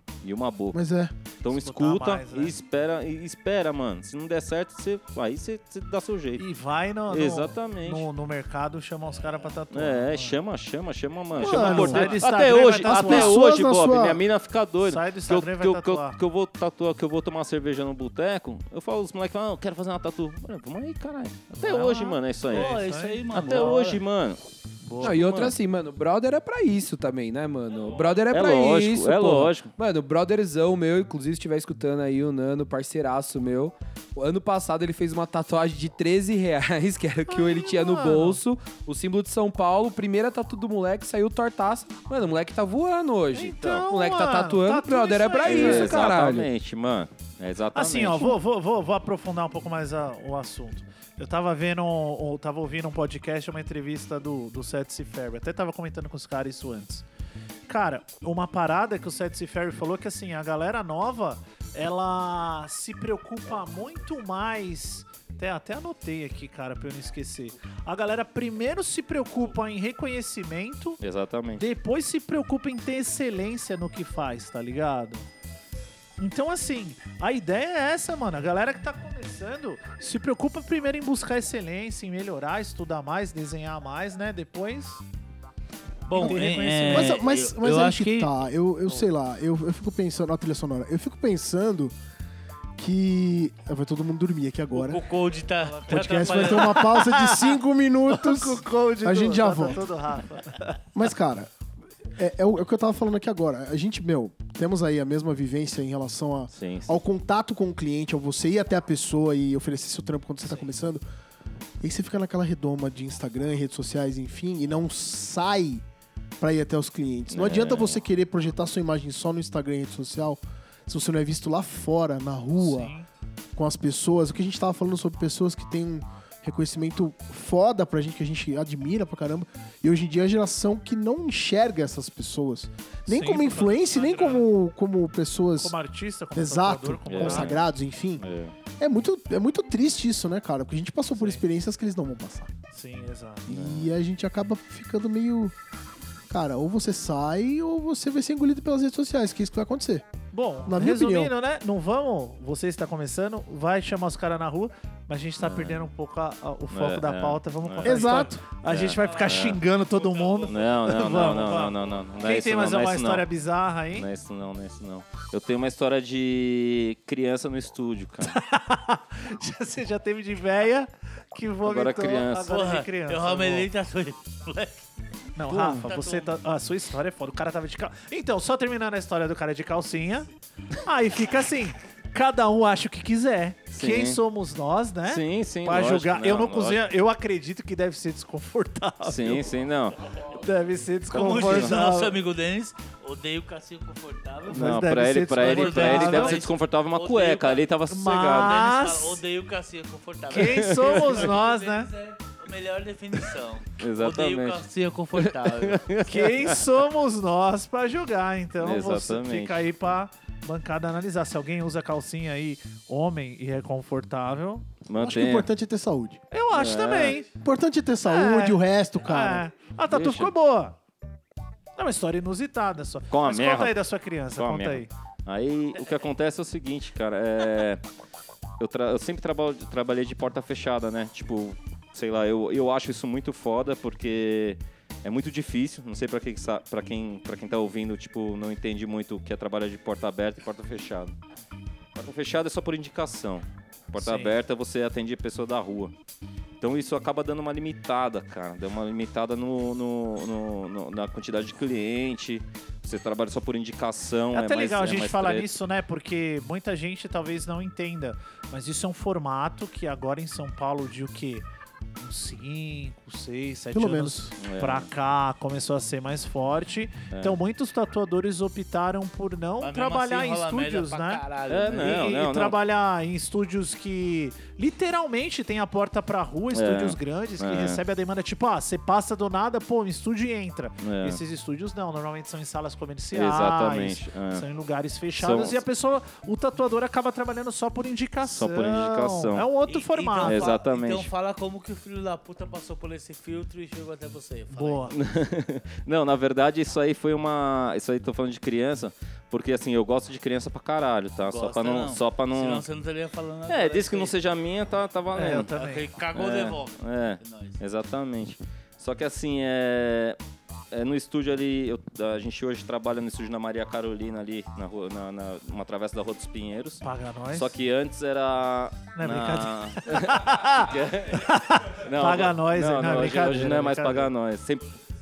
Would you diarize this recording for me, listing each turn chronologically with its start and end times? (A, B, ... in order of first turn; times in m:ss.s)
0:00.2-0:00.8 A
0:00.7-0:01.1 B
0:01.4-0:06.4 A
0:01.5-0:02.5 C
0:06.4-0:10.4 C
0:07.1-0:08.1 A
0:09.7-0:22.8 A
0:11.4-0:12.2 B
0:11.4-0:13.4 C
0:12.8-0:14.2 B
0:14.8-0:16.2 C
0:21.6-0:23.7 C
0:22.5-0:24.0 D
0:23.3-0:24.4 A
0:24.9-0:25.1 C
0:25.0-0:25.6 A
0:25.0-0:46.5 E
0:28.3-0:29.7 A
0:37.3-0:38.4 C
0:43.3-0:46.2 C
0:43.5-0:43.8 A
0:45.4-0:48.4 A
0:47.7-0:57.0 C
0:57.7-1:11.0 C
1:11.0-1:11.6 A
1:11.6-1:15.3 C
1:16.2-1:25.0 C
1:26.1-1:28.3 D
1:26.1-1:27.2 C
1:26.9-1:31.9 B
1:32.8-1:35.0 B
1:34.7-1:36.9 D
1:35.6-1:40.8 C
1:35.9-1:39.8 B
1:40.9-1:41.5 B
1:42.2-1:51.0 B
1:46.5-1:47.0 A
1:51.8-1:55.8 B
1:56.4-2:02.9 B
1:57.3-1:58.0 A
2:02.6-2:03.1 C
2:03.5-2:15.7 B
2:13.1-2:14.5 C
2:15.6-2:17.6 C
2:16.3-2:18.2 B
2:17.1-2:17.6 A
2:18.2-2:18.5 A
2:18.8-2:22.5 B
2:21.1-2:21.4 C
2:22.7-2:23.5 C
2:23.5-2:25.5 B
2:23.5-2:23.9 A
2:26.3-2:30.0 B
2:30.3-2:44.1 C
2:30.6-2:31.3 B
2:35.4-2:35.9 A
2:36.7-2:38.1 A
2:37.8-2:38.4 B
2:38.6-2:39.6 A
2:39.0-2:40.6 D
2:40.5-2:43.2 A
2:43.9-2:48.4 A
2:48.2-2:53.7 C
2:51.6-2:52.5 A
2:52.5-2:54.8 D
2:55.4-3:09.4 C
2:55.5-2:55.8 A
2:55.6-2:56.3 D
3:03.7-3:04.2 A
3:05.0-3:06.8 A
3:09.0-3:10.0 A
3:10.4-3:12.2 C
3:11.1-3:11.8 A
3:11.1-3:14.8 D
3:14.5-3:16.4 C
3:14.5-3:18.7 A
3:15.3-3:17.6 D
3:17.9-3:19.2 C
3:18.2-3:25.8 D
3:20.3-3:21.9 C
3:20.5-3:21.2 A
3:23.8-3:24.6 A
3:25.2-3:26.6 A
3:26.0-3:34.7 C
3:28.6-3:29.7 A
3:34.8-3:35.5 A
3:35.0-3:36.2 B
3:36.3-3:37.3 C
3:36.5-3:37.2 A
3:37.4-3:39.4 B
3:38.0-3:40.8 C
3:39.9-3:40.3 A
3:41.8-3:44.9 C
3:43.1-3:43.8 A
3:44.4-3:47.8 A
3:48.6-4:01.1 A
4:02.0-4:05.9 A
4:04.0-4:04.4 C
4:06.6-4:15.5 A
4:14.3-4:21.4 C
4:22.0-4:50.5 C
4:23.7-4:24.3 B
4:24.4-4:24.9 A
4:27.1-4:27.4 A
4:29.6-4:32.0 D
4:31.5-4:32.6 A
4:36.5-4:37.8 A
4:40.8-4:41.2 A
4:43.1-4:44.4 A
4:45.2-4:45.6 A
4:48.2-4:49.5 A
4:49.7-4:54.9 D
4:50.2-4:51.1 A
4:54.5-4:55.0 C
4:54.9-5:02.6 A
5:01.3-5:04.1 D
5:03.5-5:05.5 A
5:05.1-5:05.9 C
5:05.3-5:07.6 D
5:06.1-5:10.2 A
5:10.7-5:21.3 A
5:16.8-5:17.5 C
5:19.0-5:24.1 C
5:21.8-5:24.7 A